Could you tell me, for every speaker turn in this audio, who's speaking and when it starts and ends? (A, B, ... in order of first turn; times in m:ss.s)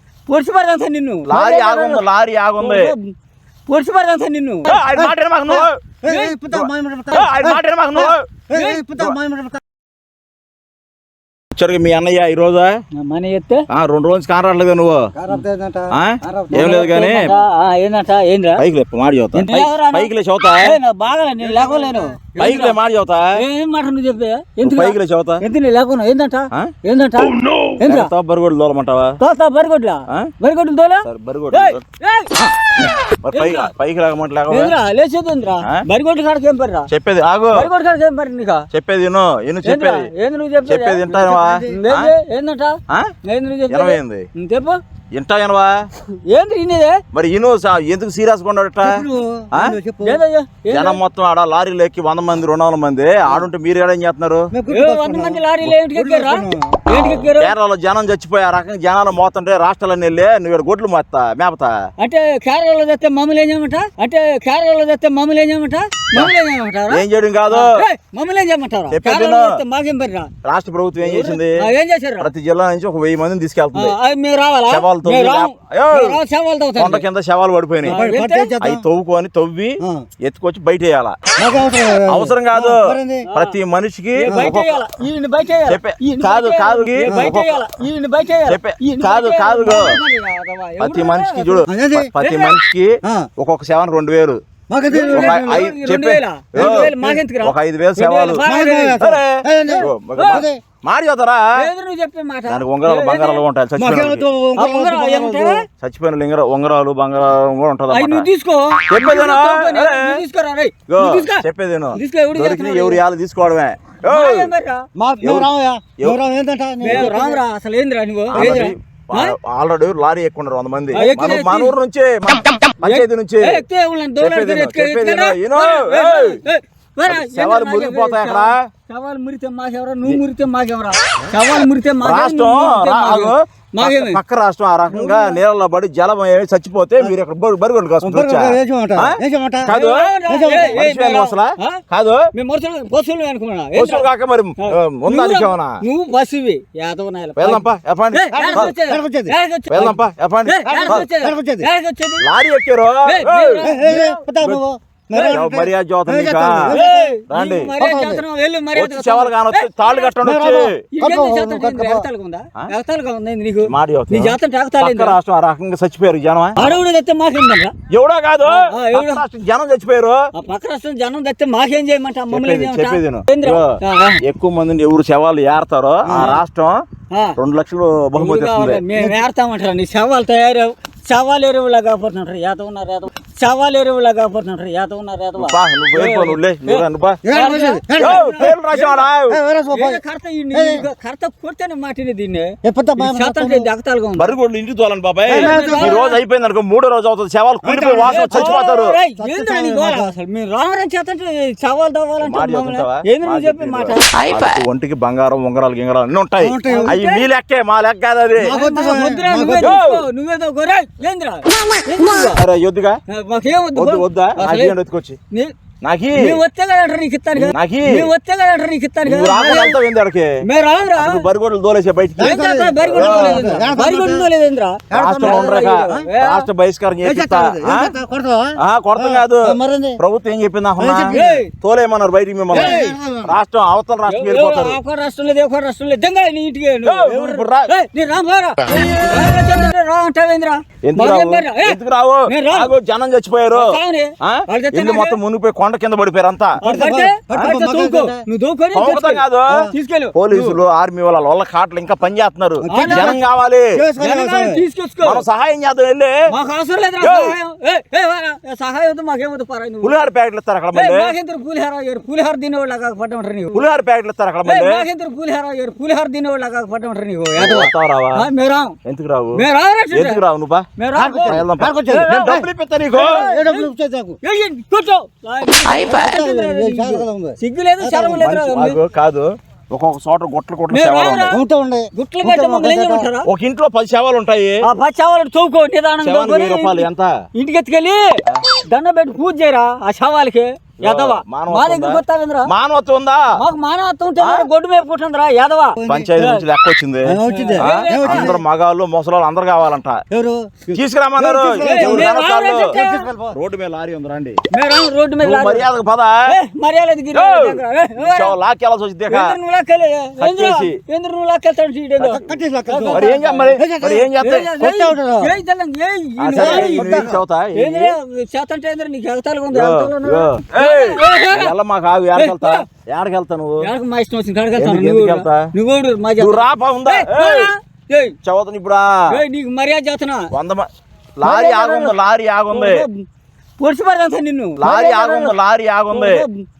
0:00.3-0:02.0 A
0:01.3-0:02.9 B
0:02.6-0:03.1 A
0:03.7-0:04.8 A
0:04.6-0:05.8 B
0:04.9-0:09.6 C
0:06.0-0:06.3 A
0:06.5-0:08.4 B
0:08.5-0:08.8 A
0:11.5-0:12.8 B
0:12.9-0:13.6 A
0:13.7-0:15.1 B
0:15.1-0:16.8 C
0:15.9-0:17.3 B
0:16.5-0:18.6 A
0:18.6-0:20.7 B
0:19.3-0:20.1 A
0:20.6-0:22.8 A
0:21.4-0:22.4 C
0:22.4-0:23.4 B
0:23.4-0:28.1 A
0:24.6-0:25.4 B
0:27.3-0:29.2 B
0:29.2-0:32.3 A
0:31.0-0:31.8 B
0:32.4-0:34.7 B
0:33.3-0:33.7 A
0:34.5-0:36.9 A
0:36.9-0:37.7 B
0:37.5-0:38.7 A
0:38.7-0:40.1 B
0:39.6-0:44.8 A
0:40.7-0:42.1 B
0:41.2-0:41.8 C
0:43.7-0:44.2 B
0:45.1-0:45.8 B
0:46.2-0:47.0 A
0:47.1-0:49.8 B
0:48.8-0:50.2 C
0:50.0-0:51.0 A
0:50.7-0:54.5 B
0:54.5-0:56.9 C
0:54.7-0:57.5 A
0:56.9-1:01.7 B
1:02.0-1:10.3 A
1:06.9-1:07.8 B
1:08.9-1:09.5 B
1:10.4-1:11.6 B
1:11.0-1:12.3 A
1:12.2-1:14.0 B
1:13.7-1:17.0 A
1:14.7-1:16.2 B
1:16.8-1:18.0 B
1:17.8-1:18.6 A
1:17.9-1:18.8 C
1:18.6-1:21.2 B
1:19.8-1:20.1 C
1:21.4-1:23.3 C
1:22.1-1:24.8 B
1:23.2-1:23.6 A
1:24.2-1:31.7 A
1:24.2-1:24.6 C
1:25.7-1:27.6 B
1:27.0-1:27.4 C
1:28.5-1:30.0 B
1:30.8-1:38.4 B
1:31.7-1:32.1 C
1:32.2-1:32.6 A
1:33.0-1:33.3 C
1:34.7-1:35.7 C
1:35.1-1:39.0 A
1:36.6-1:37.2 C
1:38.4-1:40.6 C
1:39.0-1:41.5 B
1:39.6-1:40.4 A
1:41.6-1:43.4 A
1:42.5-1:44.2 B
1:43.8-1:45.6 C
1:44.6-1:45.6 A
1:45.7-1:48.3 B
1:47.9-1:51.4 A
1:48.9-1:50.2 B
1:50.9-1:54.5 B
1:51.9-1:53.0 A
1:54.0-1:54.8 A
1:55.0-1:57.4 C
1:55.2-1:55.5 B
1:56.8-1:59.3 A
1:56.8-1:57.1 B
1:58.3-2:03.6 B
2:00.9-2:01.7 A
2:02.8-2:14.2 A
2:04.2-2:06.4 B
2:07.1-2:08.7 B
2:12.0-2:22.3 B
2:14.9-2:15.4 C
2:18.0-2:19.7 C
2:19.7-2:21.8 A
2:20.2-2:20.8 C
2:22.3-2:24.0 A
2:23.7-2:25.8 B
2:24.6-2:32.3 A
2:27.4-2:28.7 B
2:28.3-2:29.3 C
2:29.7-2:31.0 B
2:30.6-2:31.7 C
2:32.2-2:33.7 B
2:33.1-2:34.2 A
2:33.6-2:37.2 C
2:35.1-2:35.4 A
2:35.2-2:36.8 B
2:36.7-2:40.1 A
2:37.3-2:37.7 B
2:37.8-2:38.2 C
2:38.8-2:40.8 B
2:40.2-2:42.0 C
2:40.9-2:45.2 A
2:43.6-2:46.8 B
2:46.6-2:47.7 A
2:47.9-2:50.2 B
2:48.4-2:49.2 A
2:50.3-2:54.2 A
2:52.3-2:56.8 B
2:56.0-2:56.3 C
2:56.1-2:56.4 A
2:57.1-2:57.4 A
2:57.4-2:58.9 B
2:58.2-3:09.1 A
2:58.9-2:59.2 C
3:05.4-3:07.2 B
3:07.2-3:08.5 C
3:08.0-3:09.4 B
3:09.3-3:10.0 C
3:09.7-3:14.3 A
3:10.5-3:10.8 C
3:12.6-3:13.7 C
3:14.2-3:19.0 B
3:15.3-3:16.0 C
3:15.3-3:16.2 A
3:17.6-3:20.1 C
3:18.0-3:24.1 A
3:22.2-3:28.6 B
3:26.4-3:27.0 C
3:26.7-3:27.2 A
3:28.4-3:29.7 C
3:28.4-3:32.4 A
3:29.6-3:30.0 B
3:32.2-3:33.0 B
3:33.1-3:34.8 A
3:33.8-3:35.2 B
3:35.8-3:36.4 B
3:36.2-3:39.8 A
3:37.4-3:38.1 B
3:39.0-3:40.4 B
3:40.4-3:41.2 A
3:41.0-3:43.6 B
3:42.2-3:44.3 C
3:42.2-3:46.4 A
3:44.9-3:46.1 C
3:44.9-3:47.9 B
3:47.0-3:50.0 C
3:48.6-3:54.8 B
3:50.8-3:51.4 C
3:51.1-3:51.5 A
3:52.5-3:52.9 A
3:52.5-3:53.3 C
3:54.1-4:02.7 A
3:56.8-3:57.7 B
4:00.8-4:06.6 B
4:03.5-4:05.2 A
4:06.6-4:10.5 A
4:06.6-4:08.2 C
4:07.3-4:07.6 B
4:08.7-4:09.6 B
4:10.1-4:13.8 B
4:12.6-4:13.2 C
4:12.7-4:13.1 A
4:13.8-4:14.6 C
4:14.0-4:15.2 A
4:15.0-4:16.2 B
4:16.3-4:19.9 A
4:17.0-4:17.4 B
4:19.8-4:21.1 B
4:20.7-4:23.6 A
4:23.5-4:24.8 B
4:24.4-4:28.8 A
4:27.4-4:28.2 B
4:27.4-4:27.6 C
4:28.8-4:33.2 B
4:29.3-4:30.2 A
4:30.8-4:32.4 A
4:30.9-4:32.5 C
4:32.9-4:33.7 A
4:33.1-4:34.2 C
4:34.2-4:38.8 A
4:35.8-4:38.3 C
4:38.2-4:41.4 B
4:40.7-4:41.4 A
4:41.3-4:43.1 C
4:41.9-4:43.3 A
4:43.2-4:44.6 B
4:44.6-4:52.5 A
4:46.0-4:47.1 B
4:50.8-4:53.2 B
4:53.4-4:56.4 A
4:54.2-4:54.5 B
4:55.8-4:56.2 C
4:55.8-5:00.0 B
4:57.0-4:58.4 C
4:57.3-4:58.4 A
5:00.1-5:02.1 C
5:00.7-5:04.4 B
5:01.6-5:03.1 A
5:02.8-5:03.4 C
5:04.5-5:05.6 A
5:05.2-5:06.3 B
5:06.3-5:08.3 A
5:07.1-5:09.4 B
5:09.1-5:13.6 A
5:10.2-5:10.8 B
5:12.0-5:12.3 B
5:12.2-5:15.4 C
5:12.9-5:14.5 B
5:14.2-5:21.5 A
5:16.2-5:17.9 B
5:16.4-5:17.2 C
5:19.5-5:23.7 B
5:22.2-5:22.6 A
5:23.6-5:28.1 A
5:24.6-5:25.5 B
5:26.2-5:27.5 B
5:28.2-5:29.2 B
5:29.1-5:30.3 A
5:30.3-5:32.8 B
5:31.2-5:31.9 A
5:32.5-5:33.0 A
5:33.6-5:35.3 A
5:34.6-5:36.2 B
5:35.9-5:36.4 A